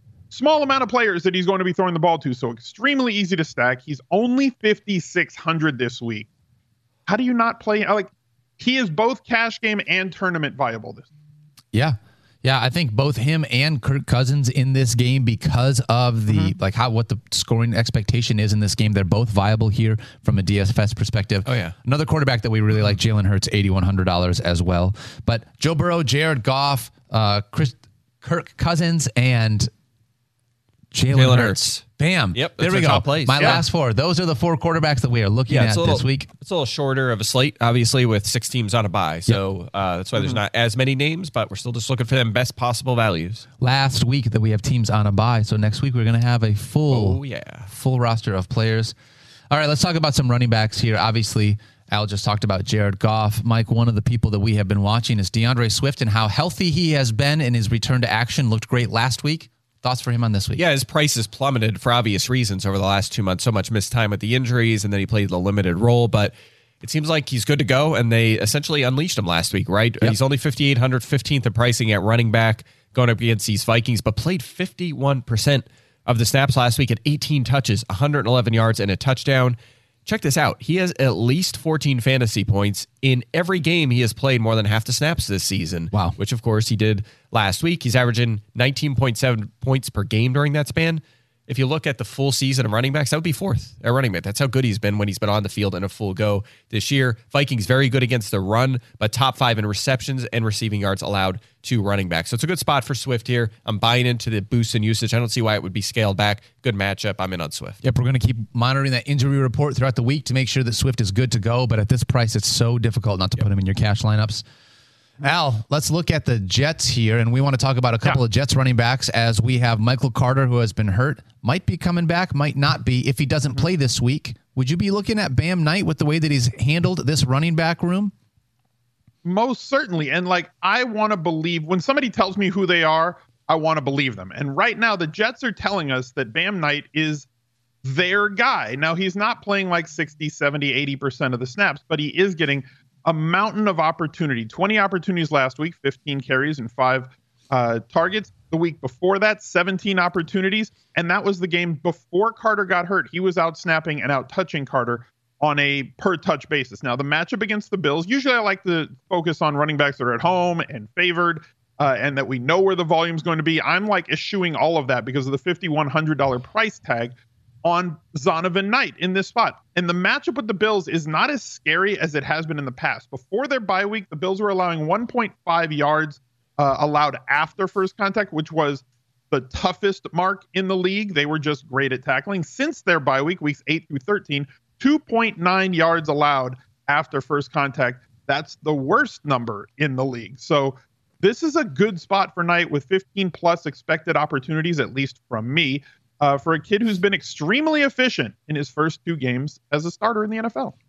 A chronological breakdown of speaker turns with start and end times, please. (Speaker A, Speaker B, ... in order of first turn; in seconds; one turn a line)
Speaker A: 0.3-6.3
Speaker A: 7.1-11.1
Speaker B: 11.7-29.7
Speaker C: 21.4-21.7
Speaker B: 30.9-36.3
Speaker C: 31.1-31.8
Speaker C: 32.3-33.6
Speaker C: 35.5-43.5
Speaker B: 43.6-49.0
Speaker C: 46.9-47.7
Speaker B: 49.5-60.6
Speaker C: 60.6-107.8
Speaker B: 107.8-114.5
Speaker B: 115.2-128.1
Speaker A: 129.2-137.3
Speaker A: 137.8-200.7